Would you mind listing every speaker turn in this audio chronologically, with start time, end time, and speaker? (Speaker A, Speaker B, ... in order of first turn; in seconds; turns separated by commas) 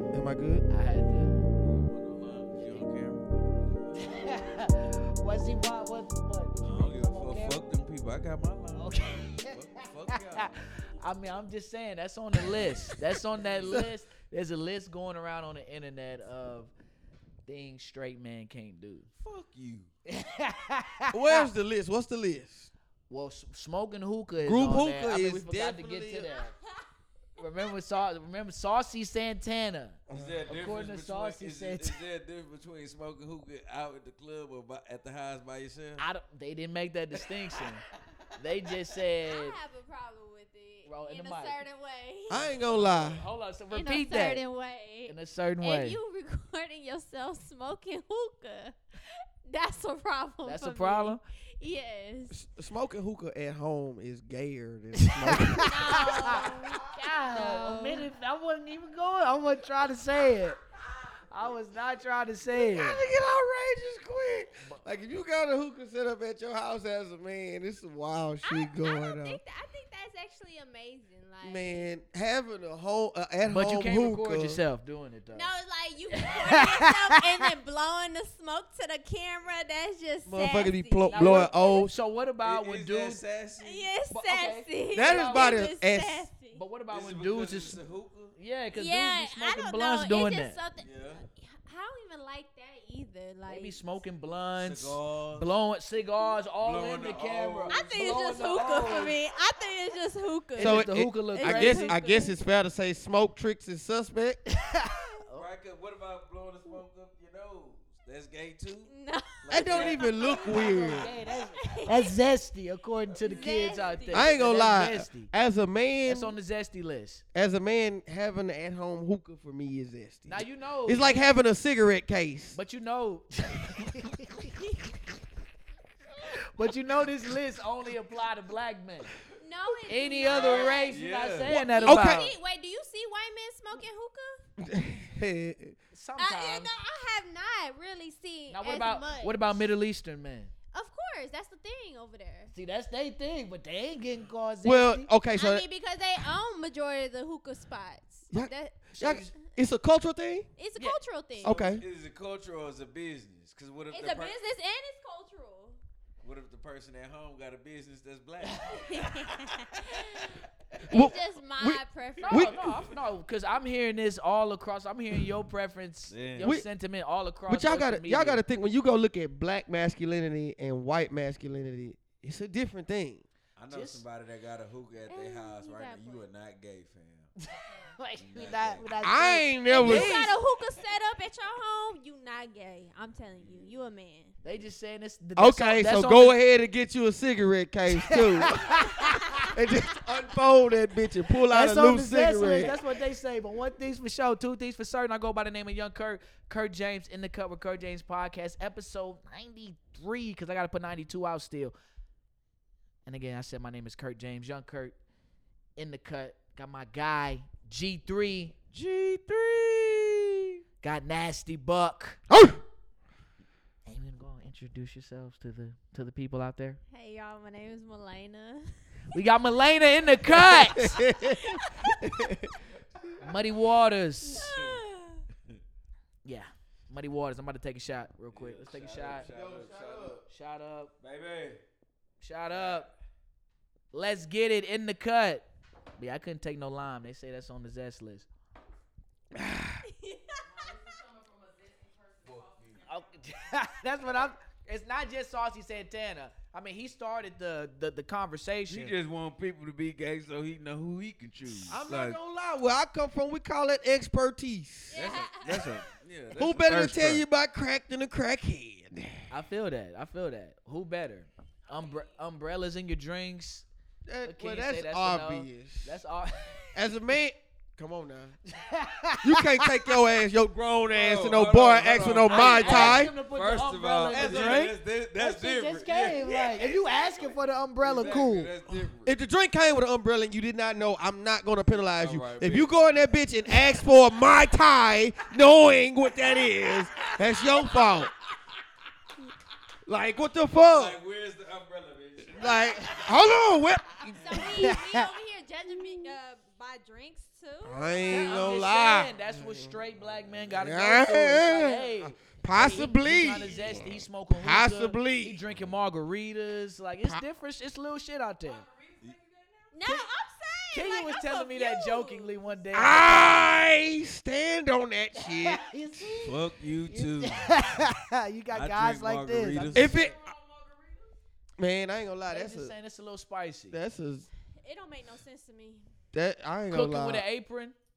Speaker A: 0.1-0.7, Speaker B: 0.7-1.5, Speaker C: 1.6-4.2, Speaker B: 2.5-2.9, Speaker B: 4.0-7.7, Speaker C: 6.6-10.5, Speaker B: 8.8-16.7, Speaker C: 13.3-13.8, Speaker B: 17.5-19.1, Speaker C: 19.2-19.9, Speaker B: 20.1-21.5, Speaker A: 21.1-22.7, Speaker B: 23.1-26.5, Speaker A: 24.4-26.3, Speaker B: 27.4-32.0, Speaker A: 30.1-30.5, Speaker C: 30.1-36.0, Speaker B: 36.0-37.8, Speaker B: 38.4-39.6, Speaker D: 39.2-42.5, Speaker B: 40.8-41.6, Speaker A: 42.3-43.2, Speaker B: 42.7-44.4, Speaker D: 43.7-52.4, Speaker B: 45.1-46.0, Speaker B: 50.4-51.2, Speaker A: 52.3-56.4, Speaker B: 55.0-60.6, Speaker D: 55.6-58.1, Speaker B: 61.3-63.0, Speaker A: 62.5-69.4, Speaker D: 68.4-71.9, Speaker A: 71.4-74.6, Speaker B: 73.5-75.5, Speaker D: 75.3-81.9, Speaker B: 76.1-77.5, Speaker A: 80.2-81.9, Speaker B: 81.1-83.2, Speaker C: 82.4-83.9, Speaker D: 83.6-86.6, Speaker B: 84.1-85.6, Speaker A: 84.9-86.3, Speaker B: 86.5-87.8, Speaker C: 86.9-88.3, Speaker B: 88.4-90.6, Speaker D: 88.7-93.8, Speaker C: 90.8-91.2, Speaker B: 93.5-99.2, Speaker C: 94.5-95.5, Speaker C: 96.6-97.9, Speaker D: 97.7-102.3, Speaker B: 100.5-102.0, Speaker A: 100.6-104.4, Speaker B: 104.6-105.4, Speaker C: 105.3-108.9, Speaker D: 108.9-112.1, Speaker C: 109.4-110.5, Speaker A: 109.5-111.1, Speaker B: 110.5-115.3, Speaker D: 113.2-114.3, Speaker A: 114.1-116.3, Speaker B: 116.0-117.2, Speaker A: 117.3-122.6, Speaker B: 120.3-121.3, Speaker B: 122.5-124.6, Speaker B: 126.2-129.1, Speaker D: 129.4-134.4, Speaker B: 129.9-132.3, Speaker C: 130.3-131.7, Speaker A: 131.8-132.3, Speaker A: 134.6-135.8, Speaker B: 135.9-136.7, Speaker D: 136.2-139.5, Speaker B: 138.5-140.5, Speaker D: 140.7-142.5, Speaker B: 142.5-145.1, Speaker A: 144.6-145.7, Speaker D: 145.4-149.2, Speaker A: 148.3-150.5, Speaker B: 149.0-149.3, Speaker D: 150.6-151.6, Speaker A: 151.4-151.8, Speaker C: 151.4-154.3, Speaker D: 153.9-155.8, Speaker C: 156.2-160.4, Speaker D: 158.7-160.4, Speaker A: 160.9-162.6, Speaker D: 160.9-162.5, Speaker B: 162.3-168.4, Speaker C: 166.1-166.5, Speaker A: 167.5-173.2, Speaker C: 173.6-177.3, Speaker B: 173.7-174.0, Speaker D: 175.1-176.3, Speaker B: 177.4-180.3, Speaker C: 178.2-178.9, Speaker A: 179.0-180.3, Speaker D: 179.7-184.4, Speaker C: 183.4-183.7, Speaker B: 184.4-186.3, Speaker A: 185.4-188.7, Speaker B: 187.9-189.5, Speaker D: 188.6-189.5, Speaker A: 189.5-192.8, Speaker B: 191.5-201.7, Speaker B: 203.1-205.0, Speaker B: 205.8-208.5, Speaker C: 208.7-210.4, Speaker B: 210.8-212.2, Speaker A: 212.3-212.6, Speaker B: 213.8-216.8, Speaker D: 216.9-219.1, Speaker B: 219.1-221.1, Speaker A: 220.7-223.1, Speaker B: 223.2-224.5, Speaker D: 224.2-225.2, Speaker C: 224.5-224.8, Speaker B: 226.2-229.3, Speaker C: 228.3-230.2, Speaker A: 229.3-230.2, Speaker B: 230.3-230.9, Speaker C: 231.0-231.6, Speaker B: 232.2-232.9, Speaker C: 232.5-232.8, Speaker B: 233.9-238.3, Speaker D: 239.8-240.5, Speaker C: 242.2-242.8, Speaker B: 242.8-248.9, Speaker C: 248.7-252.2, Speaker A: 251.7-255.2, Speaker D: 254.9-255.8, Speaker C: 254.9-257.2, Speaker A: 256.3-259.3, Speaker B: 259.3-263.7, Speaker A: 264.1-266.0, Speaker B: 264.2-266.7, Speaker A: 266.7-268.4, Speaker B: 268.5-269.7, Speaker A: 269.2-273.1, Speaker C: 270.9-279.1, Speaker B: 272.3-278.5, Speaker A: 279.0-288.1, Speaker C: 281.9-282.7, Speaker C: 287.1-287.9, Speaker A: 289.9-291.0, Speaker C: 290.5-293.1, Speaker A: 292.4-294.7, Speaker C: 294.1-294.5, Speaker D: 294.1-298.0, Speaker B: 294.6-295.0, Speaker A: 297.6-299.8, Speaker B: 298.1-308.7, Speaker A: 300.5-305.4, Speaker D: 309.7-312.4, Speaker B: 310.7-313.5, Speaker A: 312.7-316.2, Speaker B: 315.2-320.1, Speaker C: 316.2-317.5, Speaker C: 318.5-320.0, Speaker A: 319.7-320.2, Speaker A: 321.6-322.7, Speaker B: 322.3-323.8, Speaker A: 323.7-324.3, Speaker D: 324.6-325.9, Speaker A: 326.1-327.2, Speaker B: 326.7-327.8